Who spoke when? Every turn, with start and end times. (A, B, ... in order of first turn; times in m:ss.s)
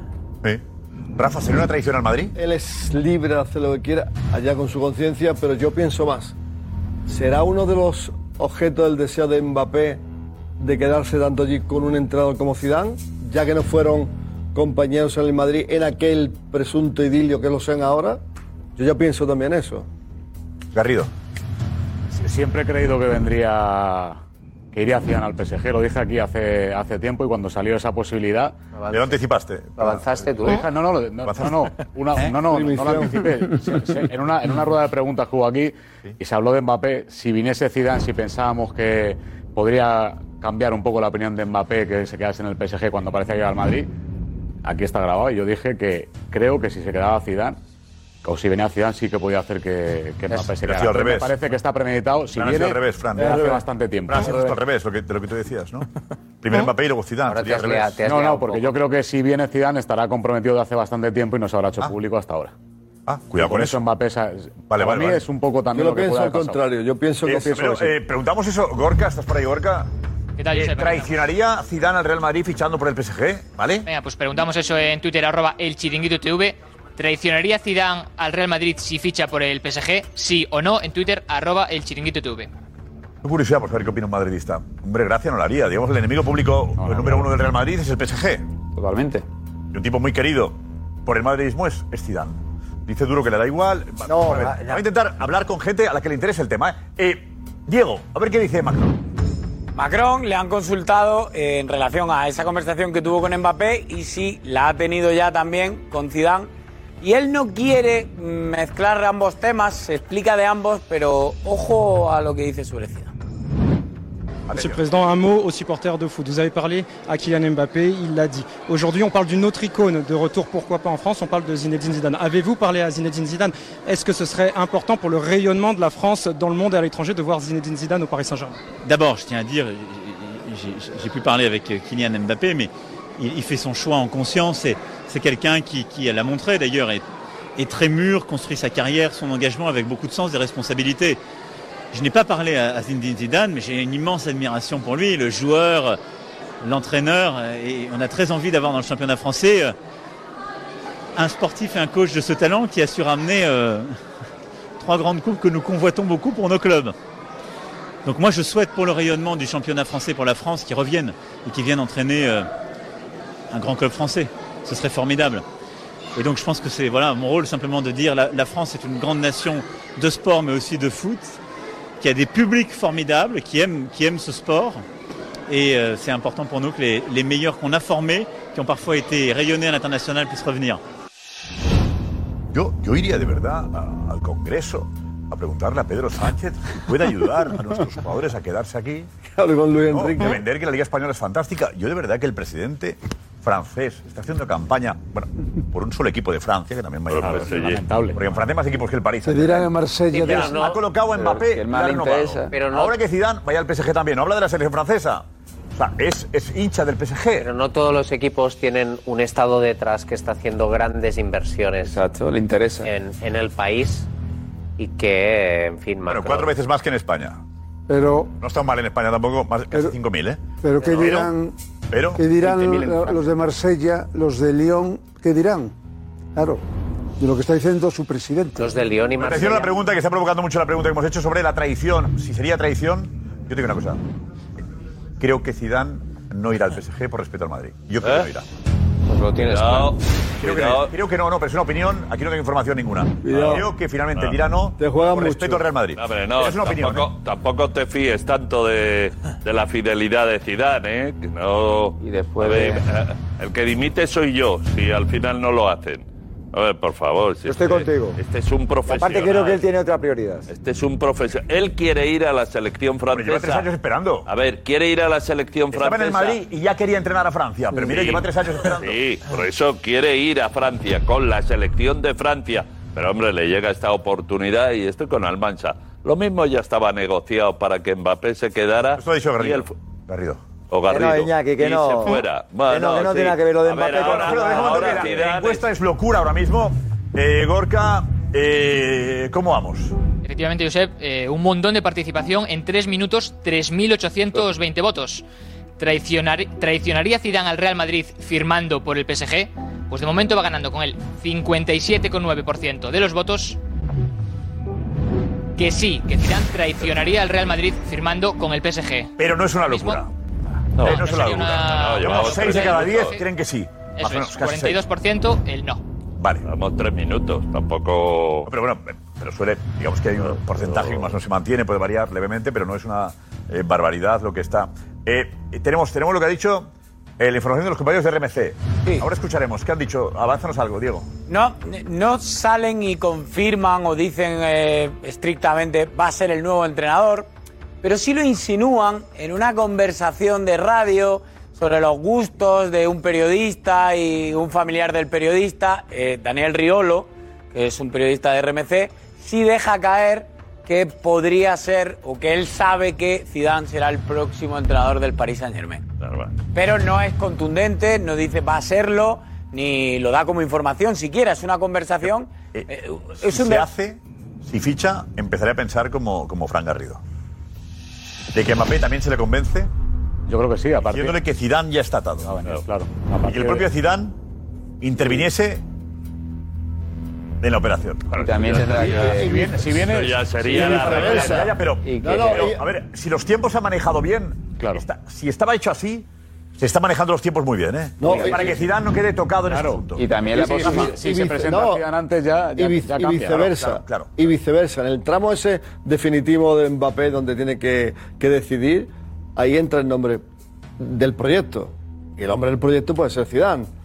0:01.2-0:02.3 A
0:02.4-0:06.3 B
0:07.1-0:10.0 B
0:10.6-0:18.2 B
0:18.8-0:19.9 B
0:20.7-0:21.1 A
0:22.1-0:24.2 C
0:24.7-0:28.6 C
0:28.8-0:29.2 D
0:28.9-0:30.2 A
0:29.8-0:30.6 D
0:30.4-0:43.9 C
0:31.2-0:31.7 A
0:32.4-0:33.4 B
0:44.6-0:47.6 C
0:48.2-0:54.6 C
0:50.3-0:51.4 A
0:52.4-0:53.5 A
0:53.2-0:53.6 B
0:54.1-0:55.9 A
0:56.4-0:58.0 A
0:57.3-0:58.7 D
0:58.0-1:02.5 C
1:03.1-1:03.8 A
1:03.4-1:06.6 C
1:04.7-1:05.2 A
1:05.7-1:07.9 B
1:07.2-1:09.9 A
1:10.4-1:11.2 E
1:10.5-1:13.9 A
1:13.8-1:22.5 E
1:23.2-1:28.4 A
1:26.8-1:27.3 C
1:28.8-1:29.2 F
1:29.7-1:39.0 A
1:34.1-1:34.8 G
1:39.8-1:46.5 H
1:47.0-1:53.1 H
1:54.5-1:54.8 A
1:54.5-2:08.6 I
2:08.8-2:17.0 J
2:17.6-2:21.2 J
2:21.9-2:26.0 J
2:26.6-2:29.7 J
2:31.2-2:34.0 J
2:34.8-2:36.9 J
2:38.0-2:42.5 J
2:43.5-2:45.4 J
2:46.2-2:51.4 J
2:52.0-2:54.8 J
2:55.5-3:00.8 J
3:02.5-3:09.1 A
3:09.4-3:10.4 B
3:09.9-3:25.2 A
3:17.1-3:17.8 K
3:17.2-3:18.2 C
3:19.2-3:20.6 L
3:20.1-3:20.8 D
3:21.1-3:22.6 F
3:22.5-3:23.0 D
3:25.8-3:27.5 A
3:27.4-3:32.0 D
3:31.8-3:32.9 F
3:32.8-3:34.1 D
3:34.8-3:36.6 D
3:36.1-3:37.4 A
3:37.9-3:38.3 L
3:38.4-3:41.3 A
3:40.6-3:41.6 L
3:40.8-3:41.1 D
3:41.9-3:42.3 A
3:42.2-3:45.7 L
3:42.4-3:43.2 C
3:46.4-3:46.6 L
3:47.2-3:48.7 L
3:48.6-3:49.8 D
3:49.2-3:54.0 A
3:55.2-3:58.5 A
3:58.0-3:58.3 K
3:59.1-3:59.9 D
3:59.4-4:00.9 K
4:00.4-4:07.1 A
4:03.2-4:03.7 B
4:03.3-4:03.6 K
4:04.8-4:05.7 B
4:06.0-4:19.6 K
4:12.0-4:12.8 F
4:17.5-4:18.2 G
4:18.9-4:20.5 G
4:20.5-4:23.7 K
4:23.1-4:24.3 A
4:24.3-4:26.4 K
4:25.7-4:29.0 A
4:27.7-4:39.7 K
4:39.0-4:40.4 A
4:40.7-4:45.7 K
4:40.9-4:45.1 G
4:43.9-4:50.0 A
4:50.2-4:55.2 E
4:55.8-5:03.6 E
5:05.6-5:10.0 E
5:09.2-5:10.1 A
5:10.8-5:13.2 K
5:10.8-5:14.8 A
5:10.8-5:13.2 E
5:14.0-5:15.8 E
5:16.2-5:16.5 A
5:16.5-5:18.5 K
5:18.5-5:31.1 A
5:20.2-5:21.1 K
5:31.3-5:37.3 H
5:37.8-5:55.8 H
5:56.0-5:56.4 K
5:56.5-6:03.7 H
6:02.5-6:07.0 A
6:08.3-6:09.7 A
6:10.3-6:11.2 C
6:10.9-6:12.3 A
6:12.2-6:13.7 C
6:13.3-6:14.2 A
6:14.8-6:15.6 A
6:17.4-6:18.7 A
6:18.1-6:19.5 F
6:18.4-6:19.2 K
6:18.7-6:20.2 C
6:19.8-6:21.4 K
6:20.5-6:22.7 B
6:20.7-6:21.1 C
6:20.9-6:26.1 A
6:21.8-6:22.4 F
6:24.6-6:24.8 C
6:26.6-6:30.1 A
6:28.0-6:28.6 B
6:29.5-6:33.5 C
6:30.0-6:30.9 F
6:30.4-6:31.8 B
6:32.6-6:40.2 B
6:33.3-6:34.1 A
6:40.8-6:43.7 B